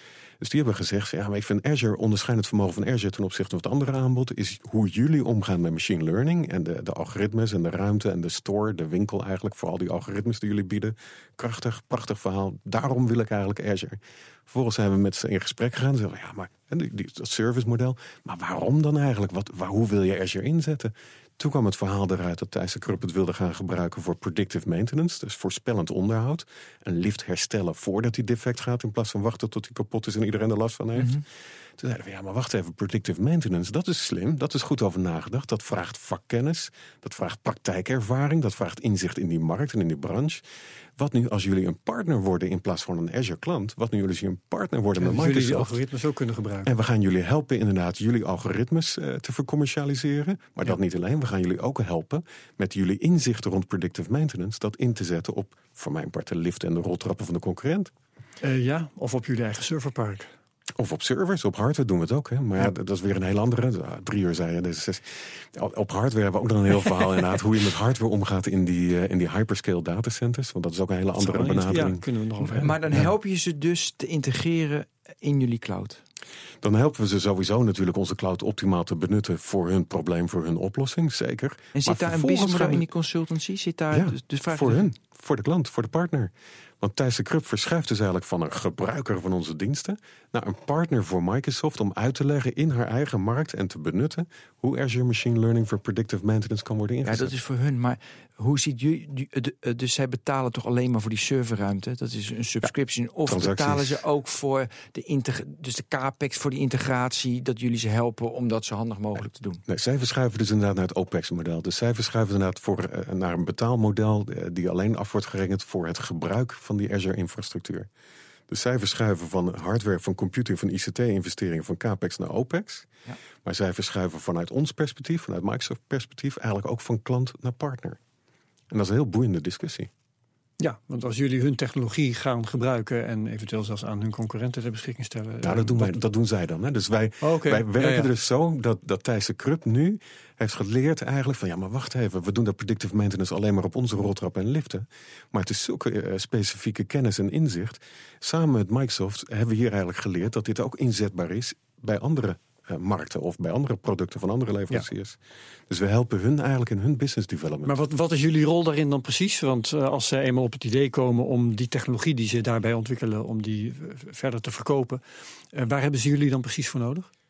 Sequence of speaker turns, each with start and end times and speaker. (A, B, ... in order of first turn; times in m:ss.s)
0:00.4-0:31.2 A
0:31.0-0:31.2 B
0:31.8-0:40.4 A
0:41.0-0:45.7 A
0:45.0-0:46.7 C
0:46.6-0:57.9 A
0:58.4-1:00.3 C
1:00.8-1:12.0 A
1:11.2-1:12.8 C
1:12.4-1:16.0 B
1:16.6-1:22.8 A
1:21.7-1:24.8 B
1:23.9-1:37.3 A
1:37.0-1:49.6 B
1:43.3-1:44.0 A
1:49.7-1:57.9 A
1:58.5-2:02.9 A
2:03.4-2:08.0 A
2:08.7-2:09.9 A
2:10.6-2:16.0 C
2:15.4-2:37.8 A
2:17.2-2:18.1 C
2:37.6-2:45.0 C
2:45.5-2:47.1 C